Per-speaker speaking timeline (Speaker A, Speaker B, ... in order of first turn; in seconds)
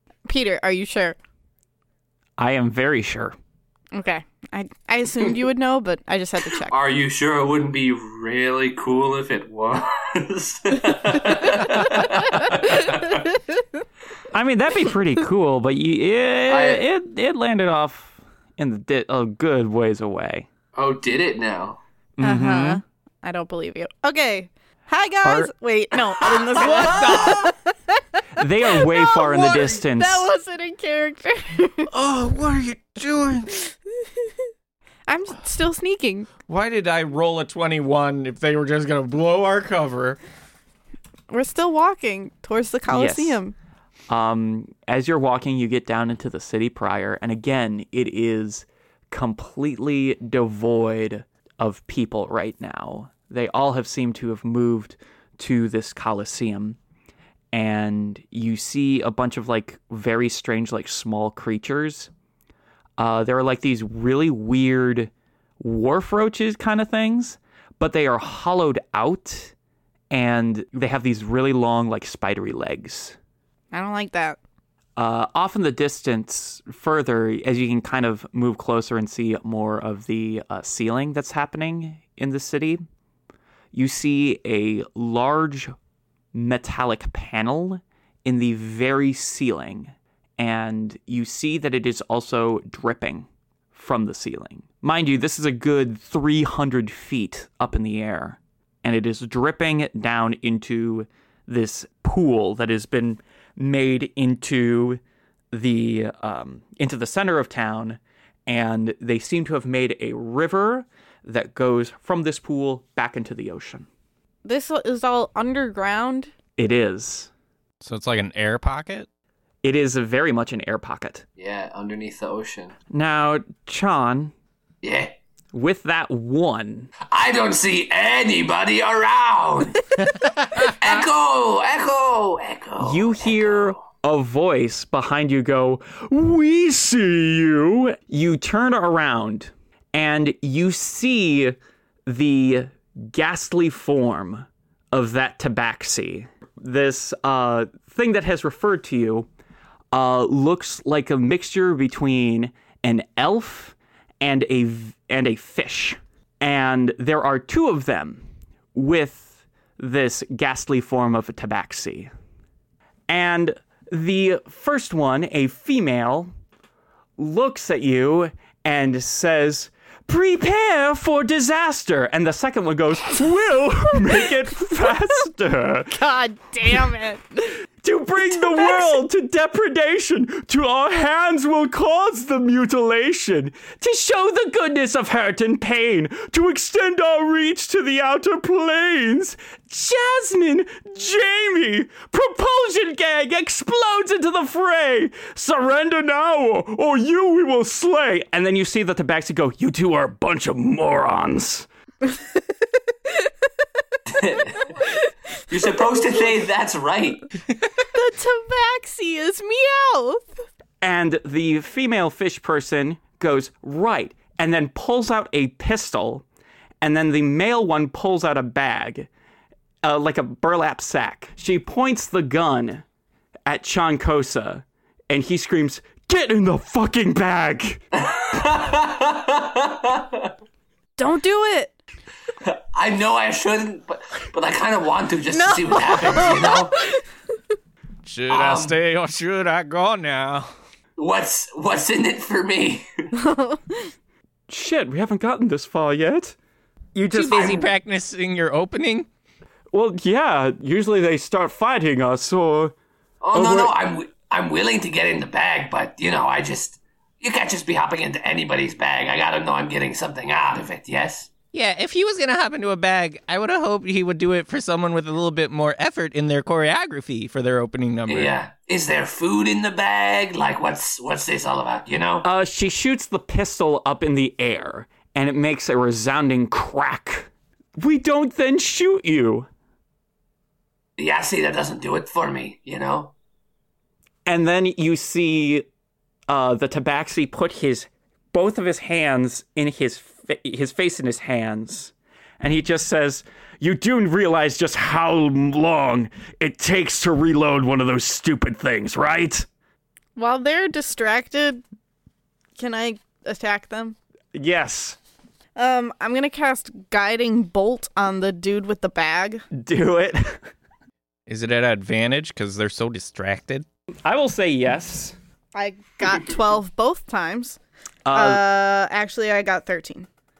Speaker A: 0.3-1.2, 3.9-6.7, 22.2-28.0, 28.7-31.9, 35.1-36.3, 41.3-43.5, 73.7-74.4, 114.4-116.3, 175.9-177.6, 178.4-179.0, 207.9-210.3, 231.0-231.8, 235.3-237.0, 243.1-243.9, 300.1-301.6, 302.6-303.9, 305.6-309.4, 315.5-317.6, 318.1-320.1
Speaker B: 2.4-3.4, 14.3-20.5, 22.2-22.8, 25.2-25.5, 28.4-30.2, 42.9-43.4, 44.1-56.8, 57.5-62.1, 63.0-69.5, 70.1-73.2, 75.0-82.8, 83.7-85.7, 86.3-105.0, 105.5-113.9, 116.6-117.3, 119.6-121.2, 122.9-124.3, 125.5-126.9, 132.8-149.3, 149.9-162.1, 163.1-166.3, 167.2-176.0, 177.8-201.7, 210.8-216.2, 216.8-219.1, 219.8-222.8, 223.4-227.8, 244.5-246.3, 246.9-247.7, 249.7-252.7, 253.3-253.7, 272.2-279.5, 284.2-285.6, 286.3-299.5, 304.3-305.0, 309.5-310.4, 314.0-315.1, 318.0-318.4
Speaker C: 6.6-13.2, 16.5-16.8, 20.7-21.8, 26.2-27.5, 121.4-122.8, 124.8-125.1, 127.1-133.8, 204.1-204.8, 205.5-207.2, 227.9-230.3, 232.4-236.8, 238.3-238.8, 241.0-242.9, 253.2-261.3, 268.1-272.2, 281.0-283.1
Speaker D: 26.6-27.4, 31.9-33.6, 36.4-40.2, 117.8-119.1, 238.0-240.5, 311.3-313.6
Speaker E: 247.1-249.1, 261.5-268.3